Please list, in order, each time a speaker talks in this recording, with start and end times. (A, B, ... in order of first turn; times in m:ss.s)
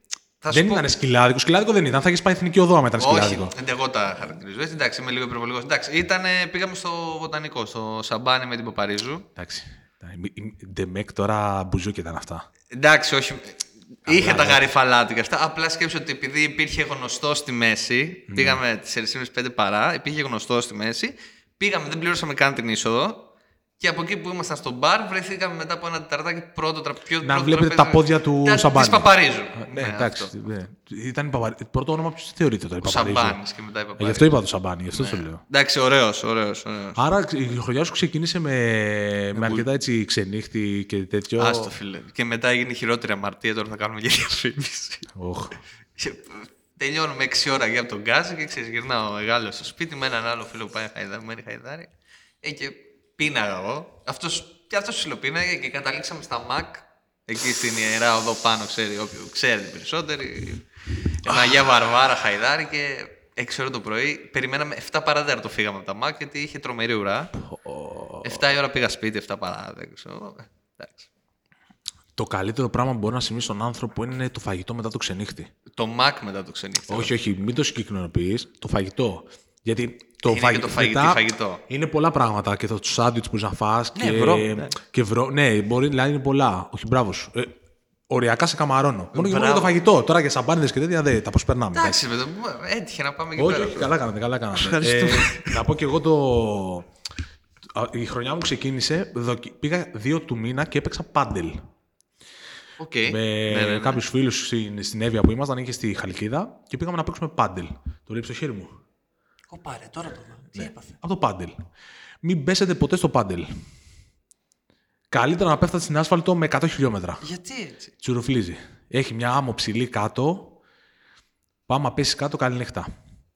0:00.4-0:00.9 A
0:00.5-0:03.5 B
0:03.0-0:09.3 A
0:09.4-0:12.5 B
0:12.7-0:23.3 A
0:14.0-0:14.7 B
0:18.3-0:18.6 B
0:23.8-0:30.3 A
0:27.2-0:33.4 B
0:32.8-0:34.3 A
0:34.0-0:35.4 B
0:34.9-0:37.0 A
0:37.0-0:41.7 B
0:39.3-0:39.6 A
0:41.4-0:45.1 A
0:45.1-0:45.6 B
0:46.0-1:00.6 A
1:01.2-1:07.3 A
1:01.2-1:01.8 B
1:07.3-1:08.5 B
1:08.2-1:11.1 A
1:12.2-1:15.5 B
1:15.7-1:17.1 A
1:16.9-1:27.6 B
1:20.2-1:21.6 A
1:23.9-1:24.8 A
1:28.1-1:32.0 B
1:29.1-1:29.7 A
1:31.7-1:33.9 A
1:33.4-1:36.9 B
1:34.5-1:35.6 A
1:37.7-1:41.6 B
1:42.8-1:44.0 A
1:43.0-1:48.8 B
1:49.5-1:51.0 A
1:50.5-1:51.6 B
1:52.2-1:53.5 B
1:55.1-1:57.2 B
1:57.2-1:57.9 A
1:58.0-2:00.6 B
2:01.7-2:02.9 B